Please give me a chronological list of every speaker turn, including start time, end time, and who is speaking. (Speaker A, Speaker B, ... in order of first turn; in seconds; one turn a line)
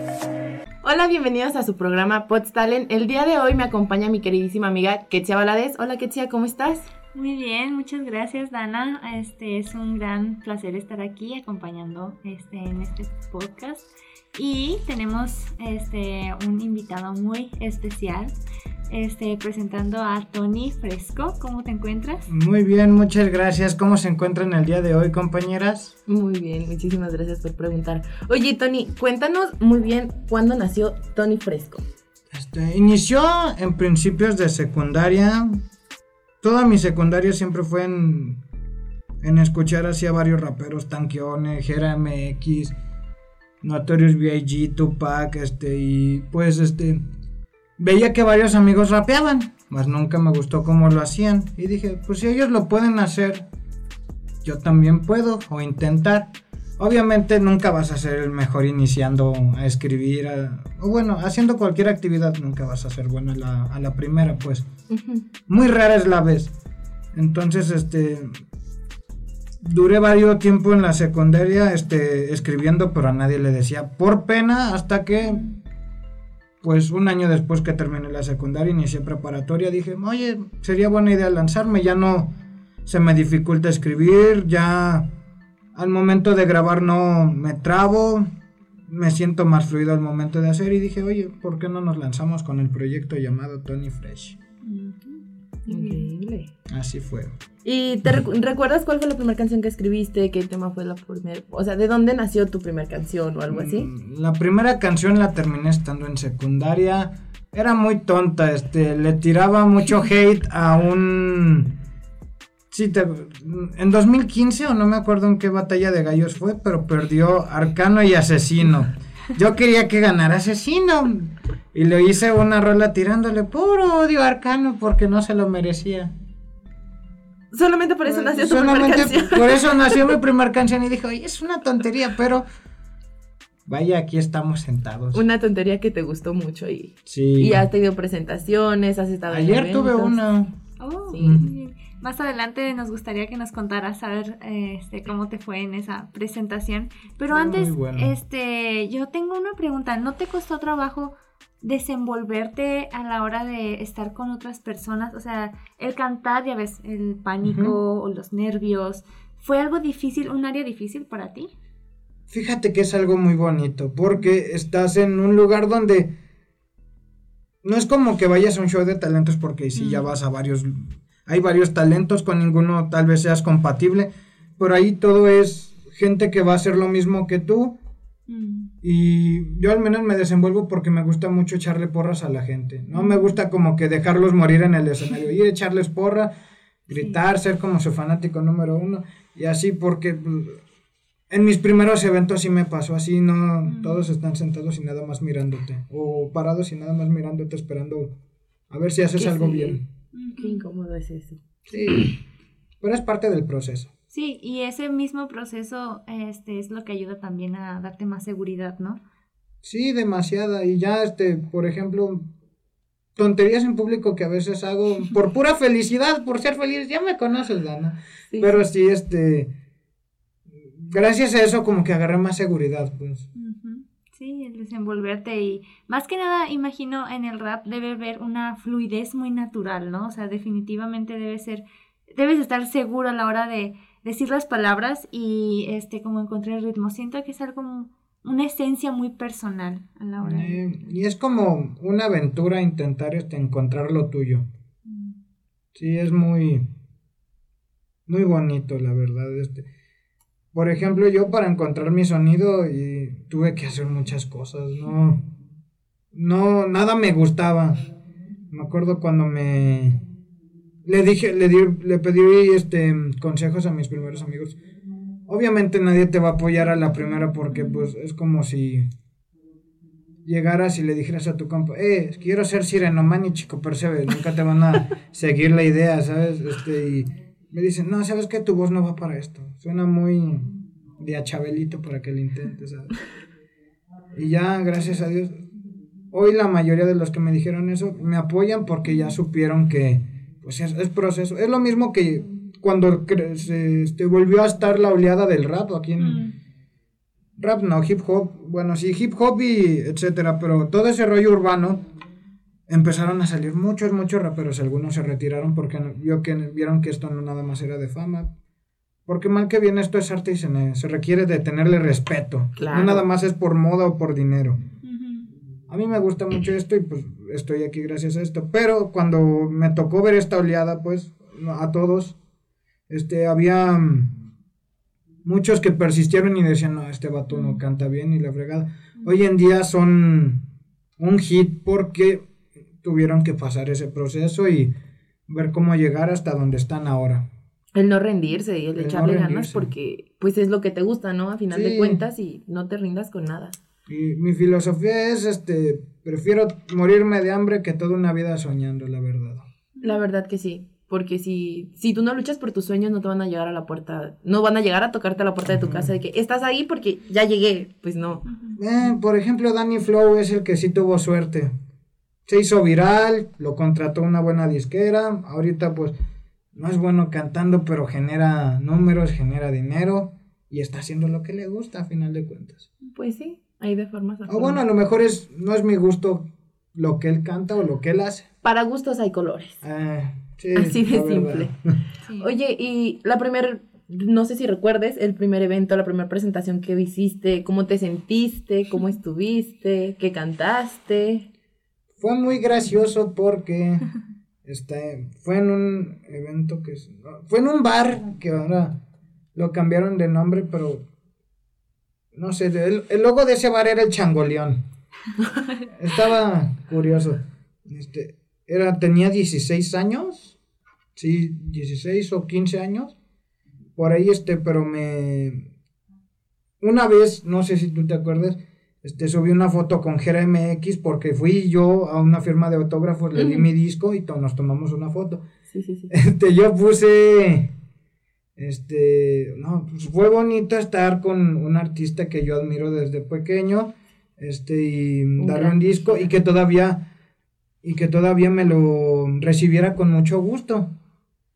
Speaker A: 0.8-6.9
Speaker B: 7.1-18.4
Speaker B: 18.9-22.2
Speaker C: 22.3-25.9
Speaker A: 26.1-31.8
Speaker C: 32.3-35.6
Speaker C: 36.4-38.4
Speaker C: 39.2-42.7
Speaker C: 43.6-47.0
Speaker C: 47.8-53.5
Speaker C: 54.4-64.7
Speaker A: 64.9-65.2
Speaker C: 65.5-66.5
Speaker C: 67.1-68.3
Speaker C: 69.6-75.4
Speaker C: 76.6-82.3
Speaker C: 82.8-85.1
Speaker C: 85.7-88.2
Speaker C: 88.9-94.4
Speaker B: 94.6-96.1
Speaker A: 95.7-96.5
Speaker C: 96.7-97.4
Speaker A: 97.6-103.9
Speaker C: 103.5-111.7
Speaker C: 112.7-126.1
Speaker A: 127.5-129.9
Speaker C: 128.0-132.4
Speaker C: 133.7-135.2
Speaker A: 135.1-140.2
Speaker C: 137.1-137.7
Speaker C: 139.3-140.6
Speaker B: 140.8-161.5
Speaker A: 141.1-141.4
Speaker C: 141.2-141.5
Speaker C: 147.3-148.1
Speaker C: 157.4-157.8
Speaker C: 162.3-166.1
Speaker C: 167.6-177.8
Speaker B: 169.8-170.1
Speaker B: 178.3-178.7
Speaker C: 178.8-186.3
Speaker B: 182.9-183.4
Speaker C: 186.9-190.6
Speaker C: 191.3-198.1
Speaker B: 193.7-194.0
Speaker C: 198.7-199.8
Speaker A: 199.1-199.8
Speaker B: 200.1-200.6
Speaker A: 200.3-201.4
Speaker C: 201.7-202.2
Speaker C: 202.8-203.9
Speaker B: 204.1-209.0
Speaker C: 209.6-212.3
Speaker C: 213.2-219.5
Speaker A: 218.3-218.6
Speaker C: 220.6-223.2
Speaker B: 223.3-240.8
Speaker C: 240.2-244.4
Speaker B: 244.8-245.2
Speaker C: 245.7-246.6
Speaker C: 248.1-249.7
Speaker C: 250.5-255.2
Speaker C: 256.1-257.9
Speaker C: 258.5-260.0
Speaker C: 260.9-264.6
Speaker C: 265.3-268.9
Speaker B: 267.5-267.8
Speaker C: 270.2-283.0
Speaker C: 284.1-285.3
Speaker C: 286.1-296.2
Speaker B: 296.0-296.3
Speaker C: 297.4-301.8
Speaker C: 302.7-308.3
Speaker C: 309.1-314.6
Speaker A: 312.6-313.1
Speaker B: 314.8-315.3
Speaker C: 315.7-322.2
Speaker C: 322.9-324.1
Speaker C: 325.2-330.4
Speaker B: 327.3-327.6
Speaker C: 331.0-332.2
Speaker C: 332.8-334.7
Speaker C: 335.3-337.2
Speaker A: 337.7-343.5
Speaker C: 338.7-339.7
Speaker C: 341.5-342.0
Speaker C: 343.9-349.4
Speaker B: 349.8-350.0
Speaker A: 349.8-358.2
Speaker C: 355.5-355.9
Speaker B: 358.2-358.6
Speaker C: 358.6-361.5
Speaker C: 362.3-365.9
Speaker C: 366.5-372.6
Speaker A: 372.9-374.6
Speaker C: 374.3-378.2
Speaker A: 378.4-379.6
Speaker C: 379.6-381.8
Speaker A: 380.5-381.5
Speaker B: 382.0-382.3
Speaker A: 382.2-391.3
Speaker C: 392.0-393.9
Speaker C: 394.4-398.8
Speaker C: 399.3-400.8
Speaker C: 402.1-404.6
Speaker C: 405.7-410.4
Speaker C: 410.9-412.9
Speaker C: 413.8-415.5
Speaker C: 416.6-425.2
Speaker A: 423.1-423.5
Speaker A: 425.5-425.9
Speaker C: 425.9-427.5
Speaker C: 428.4-436.9
Speaker A: 435.2-436.1
Speaker C: 437.6-440.7